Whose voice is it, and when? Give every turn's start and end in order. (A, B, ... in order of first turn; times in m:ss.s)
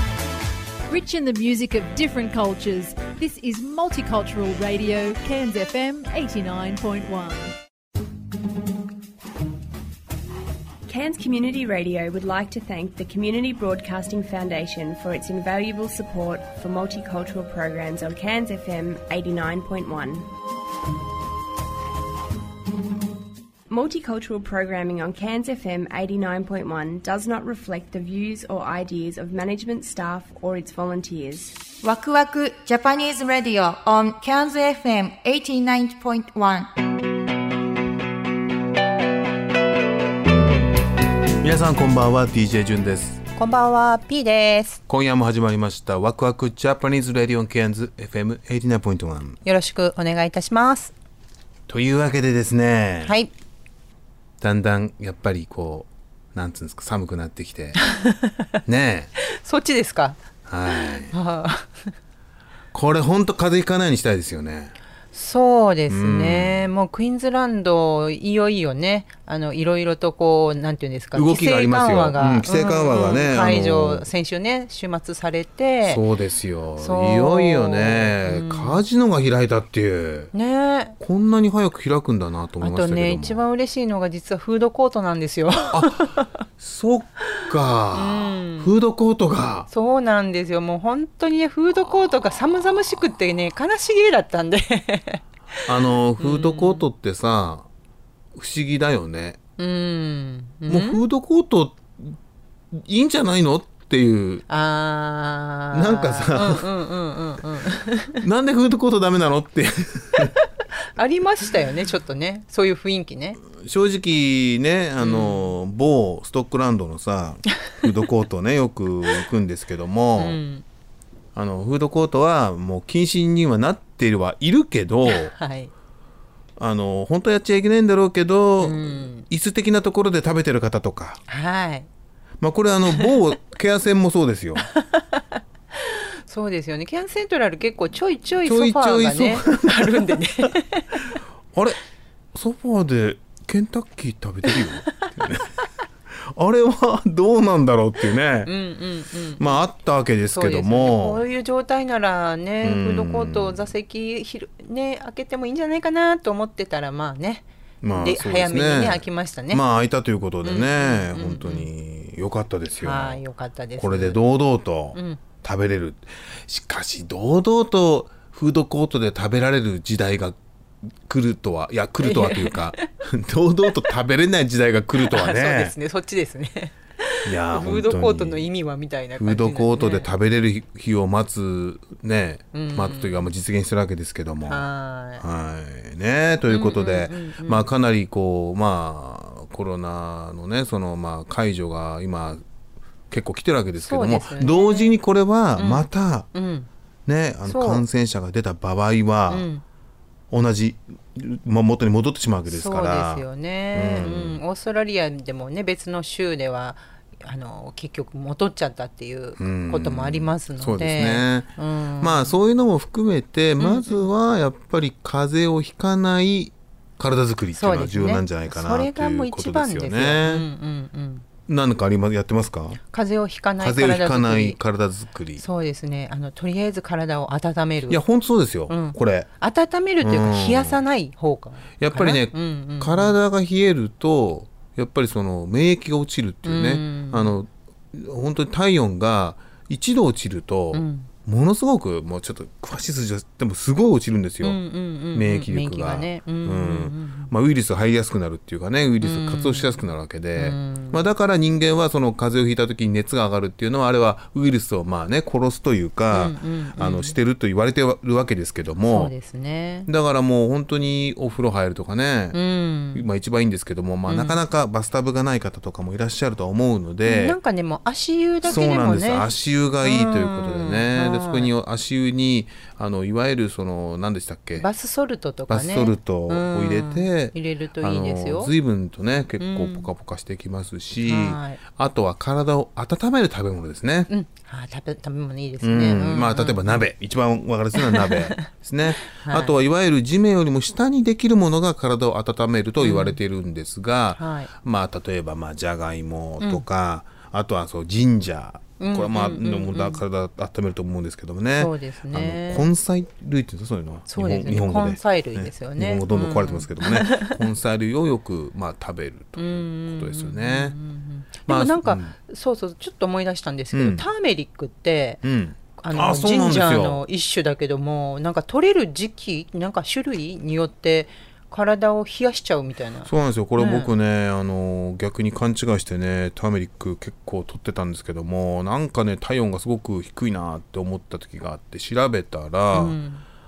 0:00.9-0:07.5 A
0:10.9-0:20.3 B
0:23.7-0:31.6 B
0:31.8-0:36.7 C
0:41.4-0:43.2 D
0:43.4-0:44.8 E
0:44.9-0:49.4 D
0:49.4-0:50.9 E
0:51.7-0:53.1 D
0:53.0-0:53.3 E
0:54.4-0:57.8 D
0:58.0-0:58.4 E
0:58.6-0:59.1 D
0:59.3-1:00.2 E
1:00.5-1:01.1 D
1:01.0-1:01.9 E
1:02.7-1:04.7 D
1:05.1-1:16.0 E
1:05.9-1:06.7 D
1:11.1-1:14.1 D
1:15.8-1:20.3 D
1:16.8-1:18.8 E
1:20.3-1:21.0 E
1:21.0-1:23.4 D
1:22.6-1:26.2 E
1:25.7-1:29.7 D
1:27.9-1:28.7 E
1:29.7-1:35.2 E
1:35.6-1:37.7 D
1:36.2-1:36.8 E
1:38.3-1:39.4 D
1:39.6-1:41.0 E
1:40.7-1:42.1 D
1:42.7-1:44.4 D
1:44.5-1:48.2 E
1:45.7-1:46.7 D
1:48.2-1:50.3 D
1:51.0-1:53.4 E
1:53.5-2:00.4 D
1:55.0-1:55.5 E
2:00.2-2:00.6 E
2:01.3-2:05.3 D
2:05.1-2:05.7 E
2:06.6-2:11.2 D
2:08.6-2:09.2 E
2:11.3-2:11.9 E
2:12.4-2:14.7 D
2:14.9-2:15.2 E
2:15.8-2:21.1 E
2:18.4-2:20.5 D
2:22.3-2:25.5 D
2:26.1-2:28.5 D
2:28.4-2:29.6 E
2:29.4-2:31.2 D
2:30.3-2:37.4 E
2:32.6-2:33.6 D
2:37.8-2:43.2 D
2:38.0-2:39.6 E
2:40.4-2:41.7 E
2:42.8-2:44.2 E
2:43.8-2:50.4 D
2:44.9-2:45.2 E
2:51.1-2:55.7 D
2:52.0-2:52.8 E
2:55.0-3:00.1 E
2:57.2-2:58.4 D
2:59.2-3:04.7 D
3:02.5-3:03.2 E
3:04.4-3:05.2 E
3:05.2-3:12.4 D
3:06.4-3:07.6 E
3:13.1-3:16.3 D
3:13.8-3:14.9 E
3:15.6-3:16.7 E
3:17.0-3:19.5 D
3:17.4-3:17.8 E
3:19.3-3:19.6 E
3:20.3-3:24.4 D
3:22.5-3:32.4 E
3:29.4-3:40.5 D
3:33.6-3:34.0 E
3:37.5-3:41.2 E
3:41.5-3:42.8 D
3:42.9-3:44.6 E
3:43.6-3:45.4 D
3:45.4-3:48.0 E
3:47.9-3:49.3 D
3:48.7-3:53.1 E
3:50.0-3:50.8 D
3:51.8-4:04.6 D
3:56.4-3:57.3 E
4:00.7-4:01.1 E
4:04.4-4:07.3 E
4:05.1-4:19.1 D
4:09.0-4:11.0 E
4:16.1-4:17.1 E
4:18.9-4:19.9 E
4:19.8-4:22.4 D
4:22.3-4:23.0 E
4:22.9-4:27.4 D
4:24.1-4:24.4 E
4:27.0-4:29.3 E
4:28.4-4:34.7 D
4:29.8-4:31.5 E
4:34.6-4:38.5 E
4:35.5-4:44.1 D
4:39.4-4:39.9 E
4:41.0-4:41.6 E
4:44.1-4:46.8 E
4:45.6-5:10.8 D
4:49.1-4:49.6 E
4:52.8-4:53.2 E
4:54.2-4:54.5 E
4:58.8-5:00.0 E
5:01.6-5:02.7 E
5:04.1-5:07.4 E
5:09.4-5:15.2 E
5:11.5-5:12.1 D
5:13.7-5:14.0 D
5:15.2-5:17.0 D
5:15.8-5:23.9 E
5:23.0-5:33.0 D
5:32.7-5:33.2 E